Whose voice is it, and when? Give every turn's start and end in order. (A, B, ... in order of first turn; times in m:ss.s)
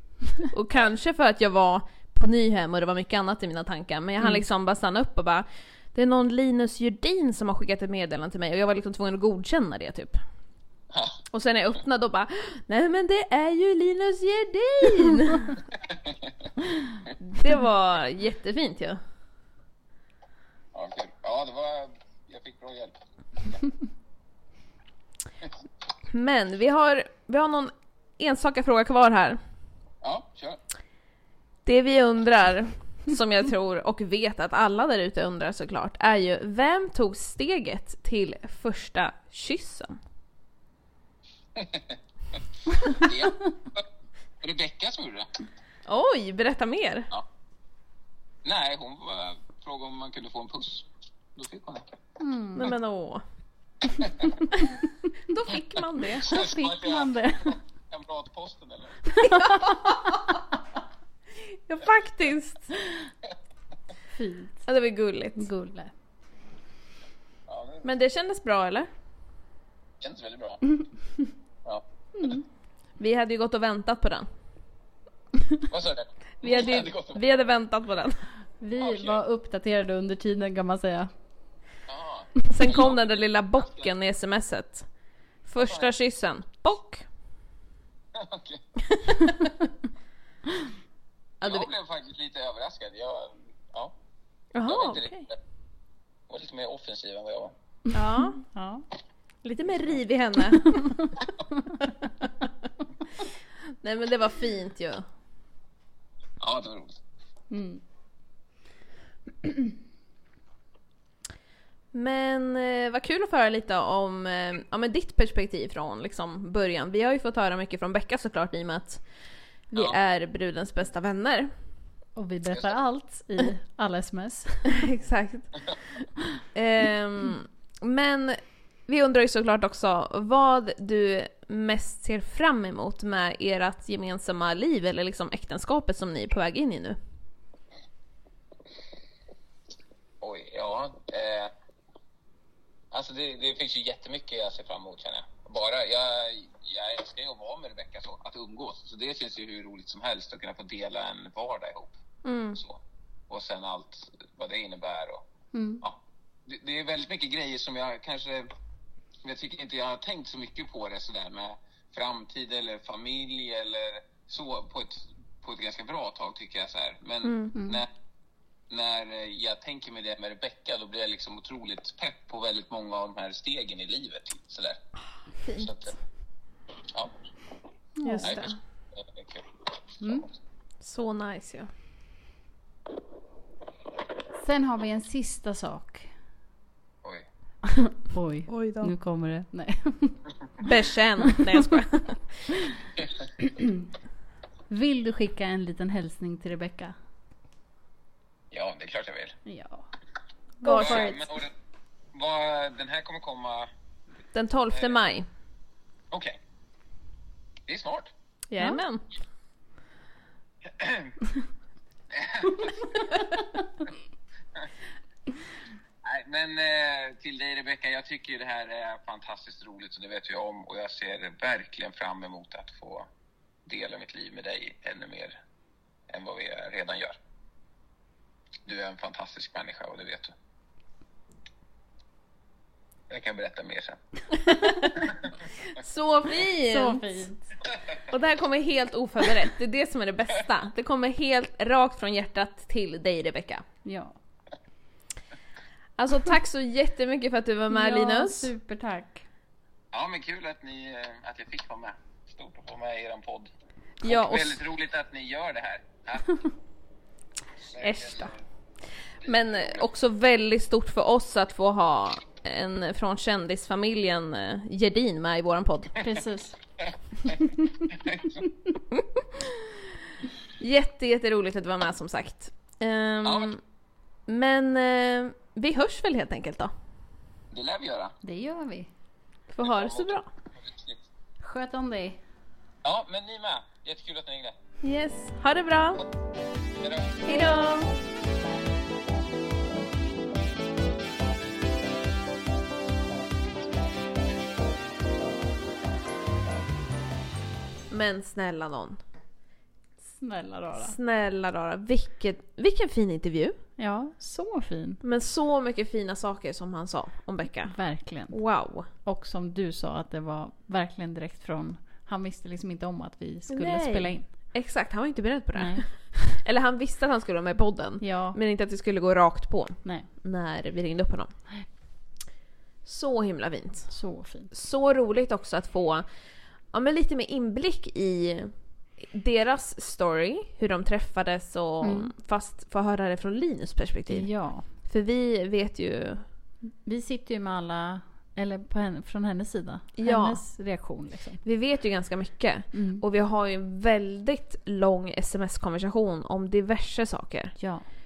0:00.4-0:10.2 A
0:10.9-0:11.2 B
0:11.3-0:15.6 A
0:15.8-0:16.5 B
0:17.2-0:19.0 A
0:20.7-0:23.6 B
0:26.1-0:29.4 A
0:30.0-0:30.6 B
0:31.7-0:40.0 A
0:41.6-0:43.8 B
0:44.4-0:45.3 B
0:45.9-0:47.1 A
0:48.4-0:52.0 B
0:52.2-0:52.7 C
0:52.6-0:53.2 A
0:54.0-0:54.4 B
0:54.5-0:56.6 A
0:56.1-0:59.2 B
0:56.3-0:57.6 C
0:59.2-1:00.4 A
1:01.4-1:02.8 A
1:04.2-1:04.7 C
1:04.7-1:05.5 A
1:05.4-1:05.9 C
1:07.5-1:07.9 B
1:07.8-1:08.9 A
1:10.0-1:10.7 B
1:11.6-1:12.3 B
1:12.2-1:12.4 C
1:13.0-1:14.3 A
1:15.7-1:17.2 B
1:16.4-1:18.2 A
1:18.6-1:21.1 C
1:18.8-1:19.2 B
1:21.9-1:23.9 B
1:22.5-1:24.9 A
1:25.4-1:27.1 A
1:25.6-1:25.9 B
1:28.1-1:28.6 B
1:28.9-1:29.3 A
1:31.4-1:31.7 A
1:31.4-1:34.0 B
1:34.5-1:35.3 A
1:34.6-1:35.4 B
1:36.3-1:37.6 B
1:37.9-1:38.4 A
1:38.4-1:38.8 C
1:39.4-1:41.1 A
1:43.8-1:45.0 A
1:46.4-1:47.0 B
1:47.5-1:47.8 C
1:51.9-1:59.0 A
1:59.7-2:01.5 A
2:02.2-2:04.9 C
2:02.5-2:02.7 B
2:04.7-2:05.6 A
2:06.5-2:17.0 A
2:20.2-2:21.5 B
2:22.9-2:32.0 B
2:32.2-2:32.6 A
2:32.6-2:35.2 B
2:35.5-2:35.8 C
2:35.8-2:38.5 B
2:39.2-2:47.9 B
2:47.2-2:47.6 A
2:47.6-2:47.8 C
2:48.7-2:54.8 B
2:55.4-2:55.8 A
2:55.6-2:55.9 B
2:58.0-2:58.3 C
2:58.0-2:58.6 A
2:58.2-2:59.5 B
3:00.0-3:00.3 C
3:00.8-3:01.7 A
3:04.4-3:06.1 C
3:07.6-3:10.2 C
3:08.5-3:08.9 A
3:10.6-3:12.2 A
3:13.4-3:13.9 C
3:14.7-3:17.0 C
3:18.5-3:19.4 B
3:19.5-3:19.9 C
3:20.6-3:21.2 C
3:20.6-3:21.2 A
3:20.7-3:21.5 B
3:22.1-3:23.7 B
3:24.3-3:25.3 A
3:24.7-3:25.0 B
3:26.1-3:26.4 B
3:27.7-3:28.1 B
3:28.5-3:29.0 A
3:30.6-3:31.2 B
3:32.1-3:33.0 B
3:36.0-3:43.1 B
3:43.6-3:45.4 B
3:46.1-3:47.2 B
3:48.7-3:50.3 B
3:53.1-3:54.0 B
3:54.3-3:57.2 A
3:56.6-3:57.5 C
3:58.1-4:03.6 A
4:03.8-4:04.1 C
4:06.0-4:08.5 A
4:07.7-4:09.2 C
4:09.9-4:13.5 B
4:14.0-4:14.6 A
4:14.0-4:16.4 B
4:17.7-4:18.4 B
4:17.8-4:18.3 A
4:19.2-4:26.0 A
4:19.2-4:19.9 B
4:26.0-4:26.6 C
4:26.8-4:28.4 B
4:28.9-4:29.7 A
4:30.6-4:33.6 A
4:33.2-4:33.5 B
4:34.3-4:36.7 A
4:37.5-4:38.2 B
4:38.2-4:38.9 C
4:39.5-4:40.3 A
4:39.6-4:41.1 B
4:41.4-4:42.2 C
4:42.8-4:44.6 B
4:44.8-4:46.0 A
4:46.8-4:47.2 B
4:47.2-4:47.9 A
4:57.9-4:59.0 A
5:00.1-5:01.0 C
5:00.8-5:03.6 A
5:03.8-5:05.0 C
5:05.0-5:07.8 A
5:07.7-5:08.4 C
5:08.3-5:08.9 A
5:09.0-5:14.2 C
5:13.5-5:21.3 A
5:15.6-5:16.4 C
5:18.0-5:18.4 C
5:22.9-5:23.9 A
5:23.9-5:24.5 C
5:24.5-5:26.0 A
5:26.7-5:28.5 A
5:29.0-5:36.2 A
5:31.8-5:32.1 C
5:34.1-5:34.7 C
5:36.7-5:41.4 C
5:40.0-5:40.4 A
5:41.4-5:47.6 A
5:42.7-5:43.0 C
5:47.6-5:47.9 C